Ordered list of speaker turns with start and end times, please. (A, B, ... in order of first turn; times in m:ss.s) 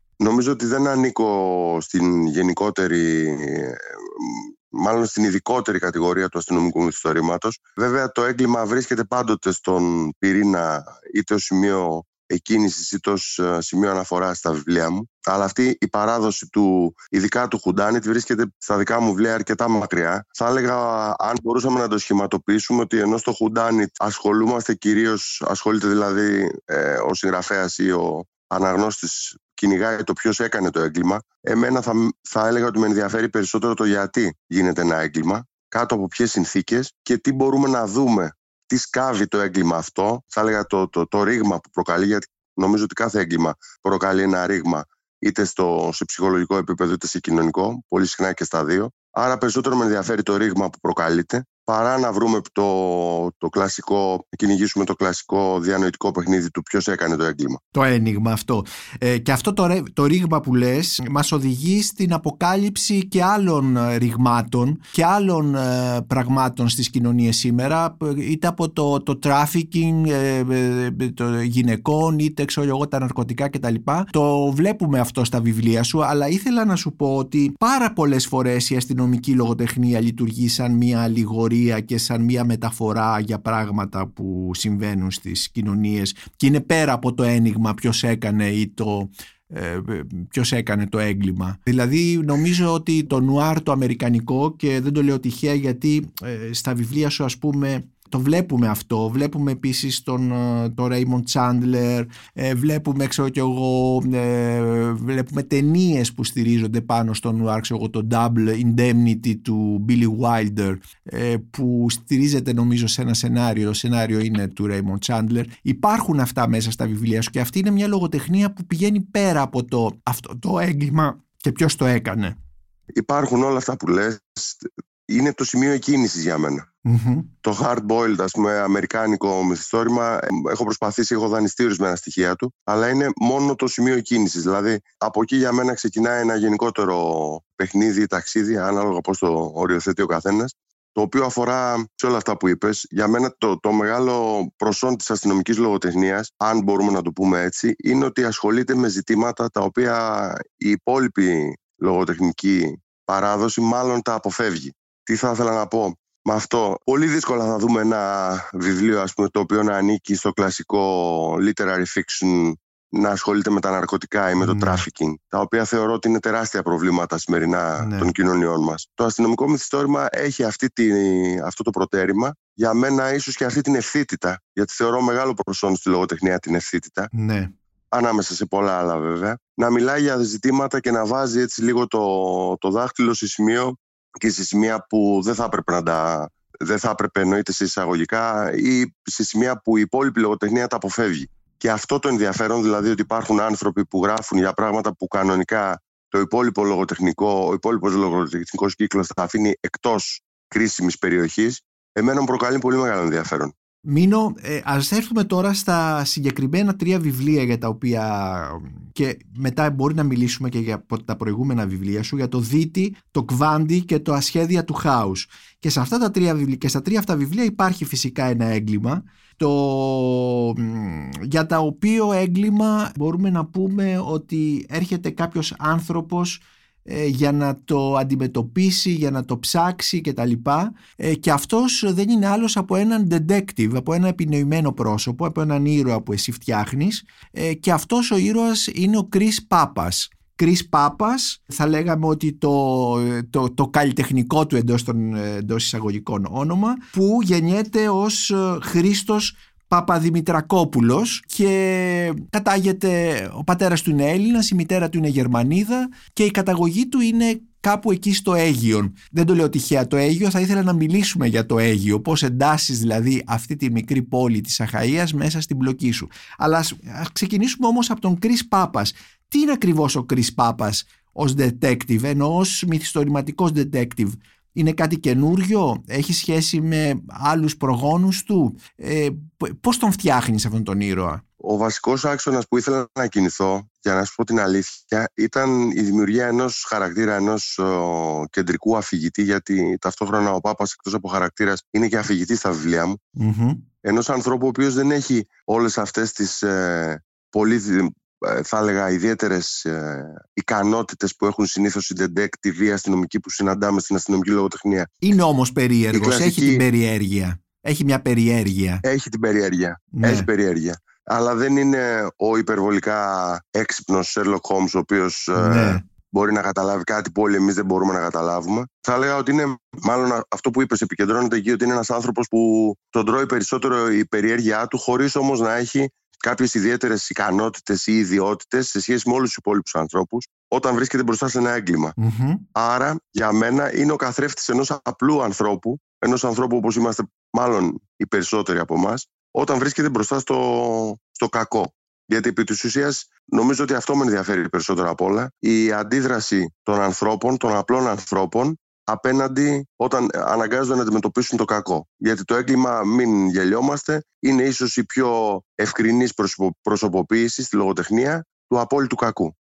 0:00.2-0:57.6 A
0:57.7-2:02.4 B
2:02.9-2:06.6 A
2:06.8-2:07.3 B
2:07.4-2:57.1 A
2:44.4-2:44.8 B
2:47.8-2:48.1 B
2:57.1-2:57.5 B
2:57.9-3:23.5 A
3:23.9-4:41.2 B
4:41.4-4:53.0 A
4:53.2-4:53.6 B
4:53.8-5:05.0 A
5:05.0-5:08.8 B
5:05.9-5:06.6 A
5:08.8-5:32.0 A
5:09.9-5:10.3 B
5:15.4-5:15.8 B
5:32.0-5:32.4 B
5:32.5-5:59.3 A